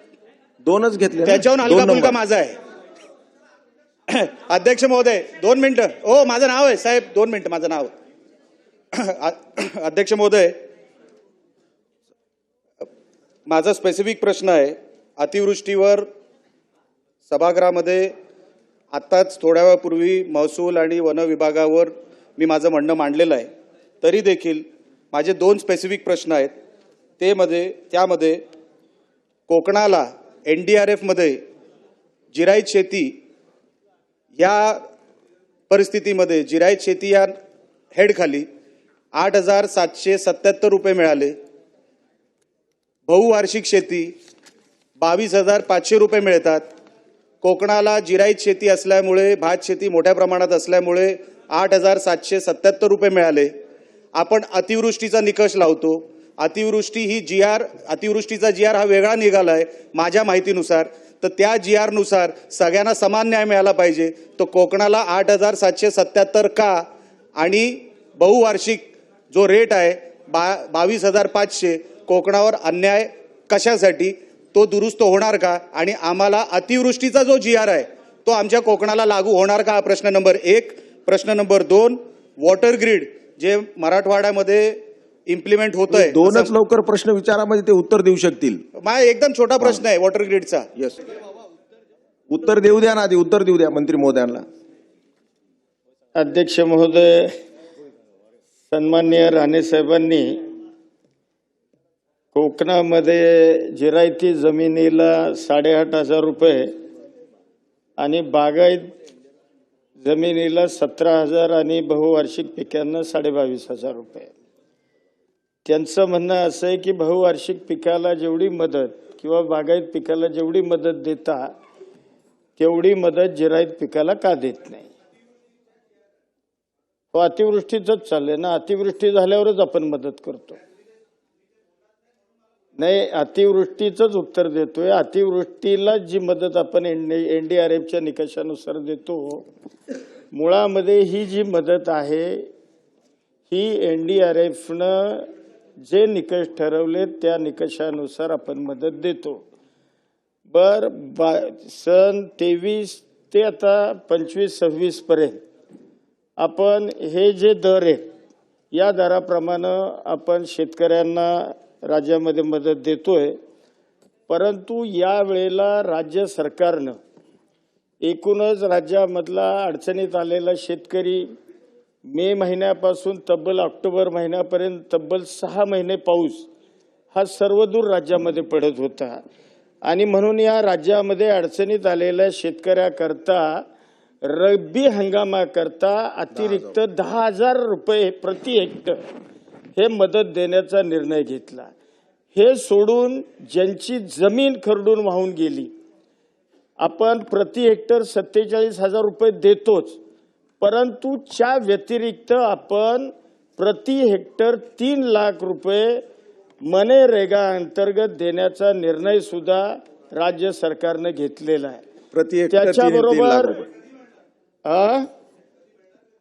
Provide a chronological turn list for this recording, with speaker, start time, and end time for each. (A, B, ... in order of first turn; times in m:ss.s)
0:00.6-0:02.2 A
0:01.2-0:02.6 B
0:04.1-0:07.9 B
0:08.9-0:10.6 B
0:13.5-0:16.0 B
0:17.3-0:18.1 B
0:18.9-0:23.5 B
0:24.0-0:26.5 B
0:27.2-0:28.4 B
0:29.5-0:31.4 B
0:32.3-0:33.1 B
0:34.4-0:34.8 B
0:35.7-0:37.3 B
0:38.0-0:38.5 B
0:39.1-0:41.3 B
0:43.1-0:44.1 B
0:45.0-0:46.6 B
0:47.4-0:53.5 B
0:54.2-1:06.8 B
1:07.4-1:26.5 B
1:25.9-1:28.6 A
1:28.8-1:30.7 B
1:29.6-1:29.8 A
1:32.3-1:34.4 A
1:36.2-1:37.3 C
1:38.7-1:40.4 C
1:42.3-1:46.7 C
1:48.0-1:48.9 C
1:50.0-1:54.3 C
1:55.7-2:01.5 C
2:02.6-2:04.9 C
2:07.1-2:10.6 C
2:12.8-2:19.5 C
2:20.3-2:22.5 C
2:23.5-2:25.3 C
2:25.8-2:29.4 C
2:30.5-2:35.4 C
2:36.4-2:38.1 C
2:38.7-2:43.4 C
2:44.3-2:47.0 C
2:48.0-2:51.3 C
2:52.1-2:56.5 C
2:57.1-2:59.2 C
2:59.8-3:03.6 C
3:04.2-3:09.0 C
3:06.4-3:06.7 A
3:09.8-3:11.7 C
3:12.3-3:15.7 C
3:16.8-3:20.0 C
3:20.6-3:26.0 C
3:26.6-3:31.8 C
3:32.1-3:33.7 A
3:32.5-3:33.6 C
3:34.6-3:35.1 C